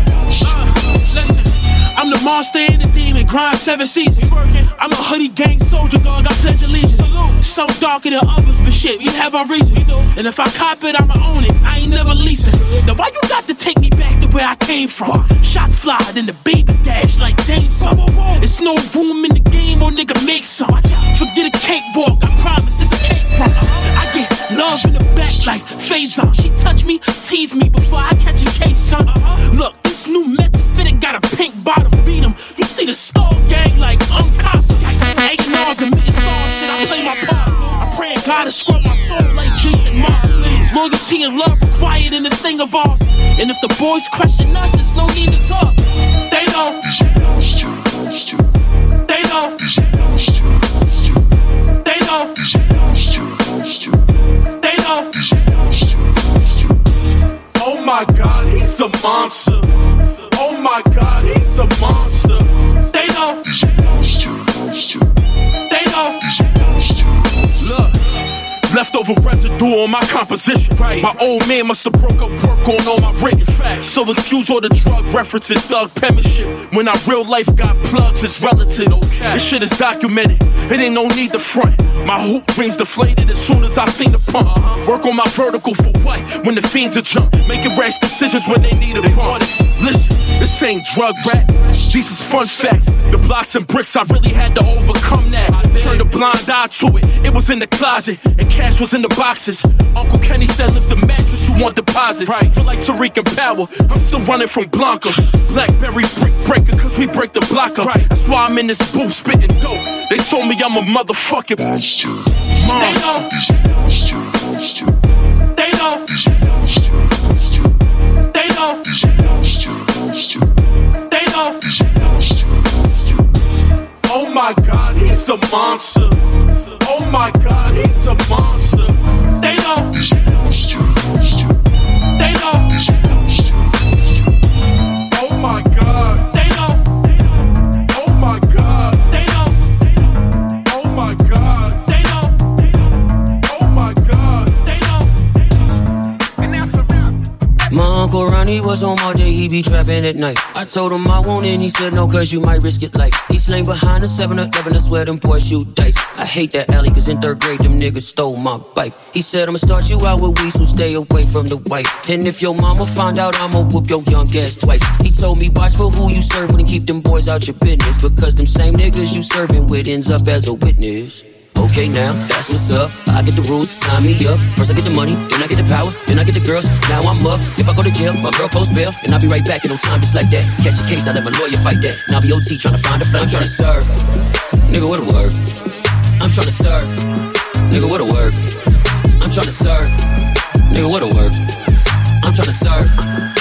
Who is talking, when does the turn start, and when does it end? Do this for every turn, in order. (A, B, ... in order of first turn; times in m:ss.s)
0:00.4-0:46.8 A
0:49.1-0:49.6 A
0:51.8-0:52.4 A
0:54.6-0:55.1 A
0:57.6-1:02.5 B
1:02.9-1:03.4 A
1:07.6-1:08.0 B
1:08.7-1:51.6 B
1:52.7-1:53.3 A
1:55.6-1:56.1 A
1:58.3-1:58.8 A
2:01.1-2:01.6 A
2:04.1-2:06.2 B
2:06.8-2:09.0 B
2:09.4-2:09.9 A
2:12.2-2:12.7 A
2:16.3-2:16.8 A
2:18.1-2:18.7 B
2:19.1-2:19.5 A
2:21.9-2:22.3 A
2:24.7-2:25.1 A
2:27.7-3:04.0 C
3:04.7-3:05.4 C
3:06.2-3:07.0 C
3:07.7-3:08.4 C
3:09.2-3:10.0 C
3:10.7-3:11.4 C
3:12.2-3:13.0 C